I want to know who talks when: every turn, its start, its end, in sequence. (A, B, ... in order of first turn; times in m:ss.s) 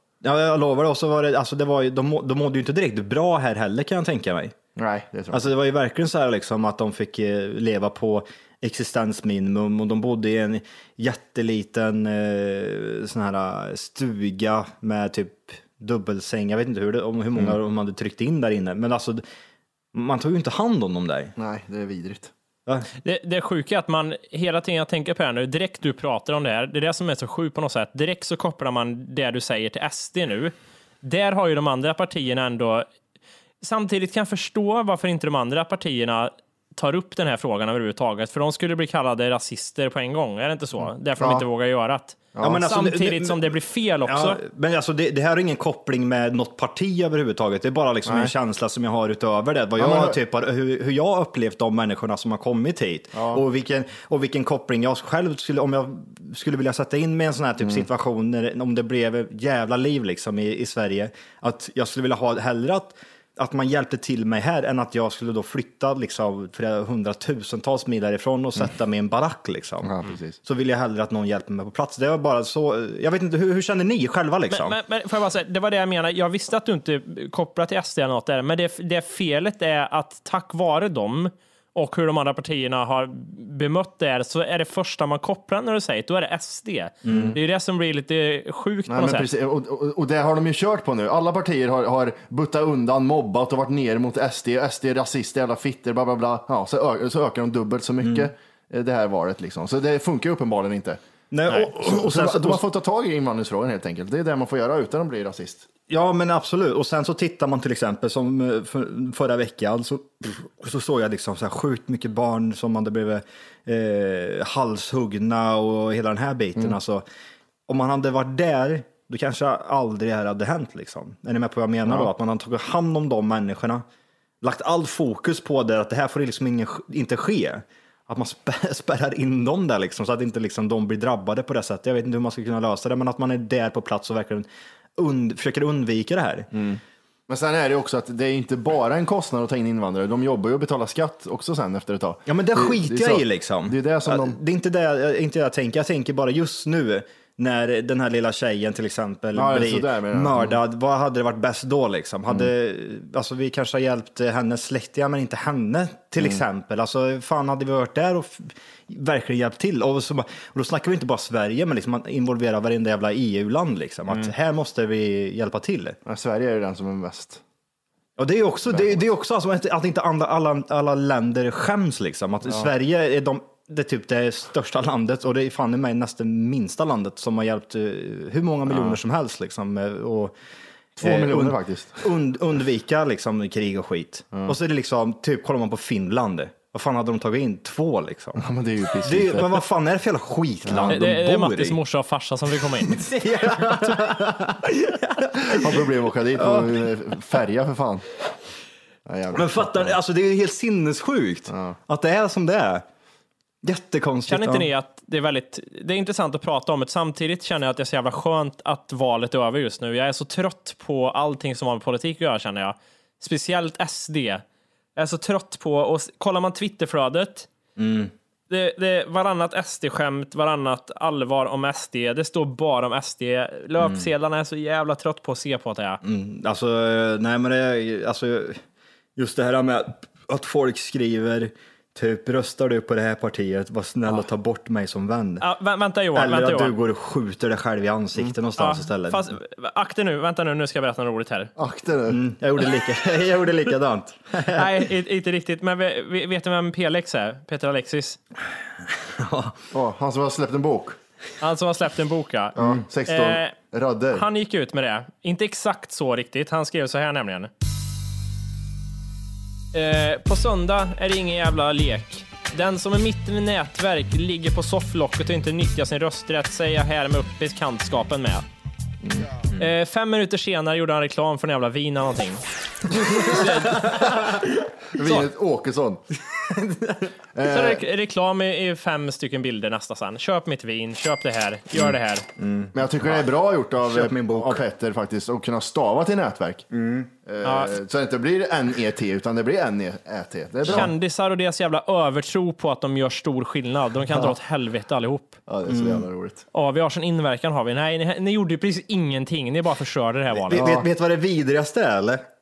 0:00.2-0:04.6 A
0:04.8-0:05.5 B
0:05.3-0:19.2 A
0:19.9-0:21.3 A
0:21.4-0:22.3 B
0:23.0-0:32.9 C
0:33.6-0:44.4 C
0:41.2-0:41.4 B
0:42.3-0:42.6 B
0:42.4-0:43.5 A
0:44.0-1:14.8 A
0:48.0-0:48.3 B
0:49.8-0:50.2 B
0:53.1-0:53.4 B
1:09.8-1:10.4 B
1:14.5-1:29.3 C
1:27.0-1:27.4 A
1:27.1-1:27.4 B
1:28.9-1:41.0 B
1:38.0-1:38.3 A
1:41.3-1:42.6 A
1:41.7-1:45.7 B
1:45.9-1:57.0 A
1:57.7-2:03.8 A
2:04.4-2:16.5 A
2:16.5-2:24.4 B
2:22.3-2:46.0 A
2:29.3-2:30.6 B
2:46.0-2:47.4 B
2:48.2-3:00.4 A
2:48.7-2:49.0 B
2:58.7-2:59.0 B
3:01.0-3:02.1 B
3:01.0-3:08.4 A
3:08.4-3:09.6 B
3:09.0-3:11.8 A
3:10.6-3:11.0 B
3:10.9-3:13.1 C
3:12.8-3:16.8 A
3:15.4-3:18.0 B
3:19.0-3:20.0 B
3:19.3-3:22.8 A
3:21.5-3:21.8 B
3:23.6-3:24.7 A
3:24.3-3:34.4 C
3:35.0-3:37.5 C
3:37.8-3:38.1 A
3:38.5-3:46.0 C
3:43.8-3:44.1 A
3:46.0-3:48.6 A
3:49.2-3:55.4 A
3:55.4-3:56.7 C
3:56.1-3:59.2 A
3:58.6-4:01.5 C
4:01.6-4:02.2 B
4:02.1-4:04.8 A
4:04.5-4:08.2 C
4:08.8-4:09.6 A
4:09.7-4:11.0 B
4:11.4-4:13.5 C
4:12.6-4:14.2 B
4:14.1-4:17.5 C
4:19.7-4:28.4 C
4:29.4-4:29.7 A
4:29.6-4:32.4 C
4:33.0-4:34.4 C
4:34.9-4:36.0 B
4:36.2-4:37.1 A
4:37.3-4:37.8 B
4:37.4-4:42.2 C
4:41.7-4:43.2 A
4:42.7-4:46.6 B
4:43.8-4:44.6 A
4:46.7-4:47.1 A
4:47.2-4:50.9 B
4:47.4-4:47.8 C
4:50.6-4:55.4 C
4:55.5-4:56.4 B
4:55.7-4:56.0 A
4:56.5-5:00.8 C
5:00.4-5:02.2 A
5:00.6-5:00.8 B